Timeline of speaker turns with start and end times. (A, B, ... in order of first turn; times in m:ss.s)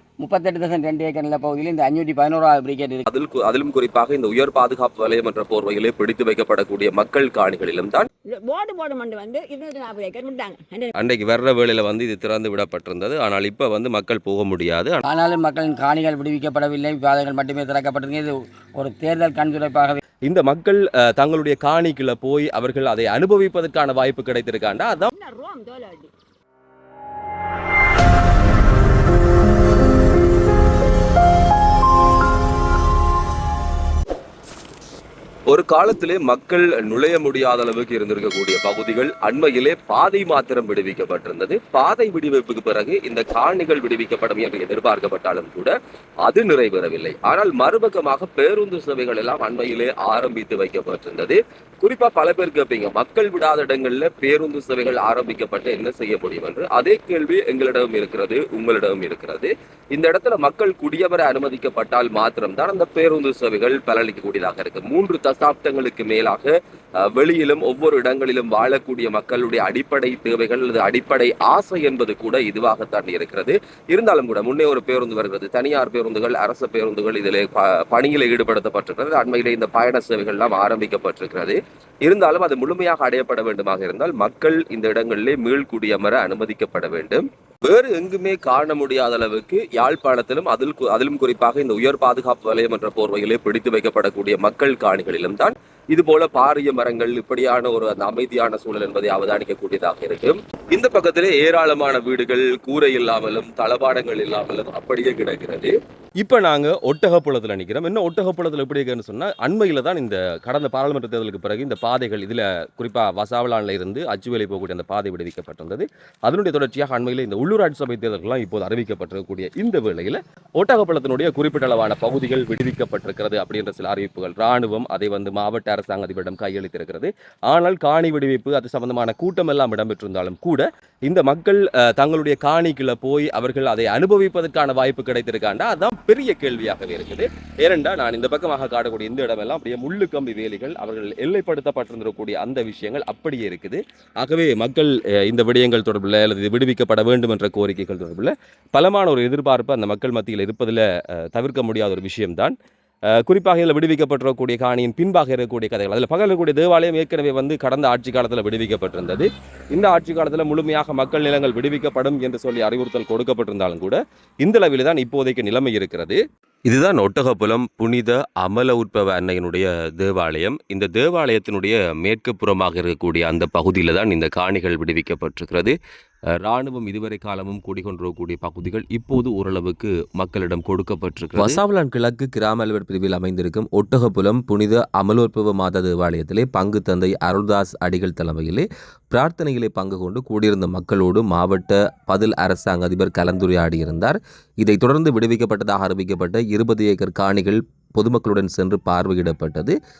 0:00.2-0:03.0 A
0:03.1-0:08.1 B
0:08.3-0:11.0 C
0:11.0-0:15.0 B
0:15.1-0:20.0 A
0:20.3-0:25.1 B
0:25.1-0:26.1 C
0:35.5-2:32.6 B
2:33.1-2:55.8 B
2:56.4-3:19.8 B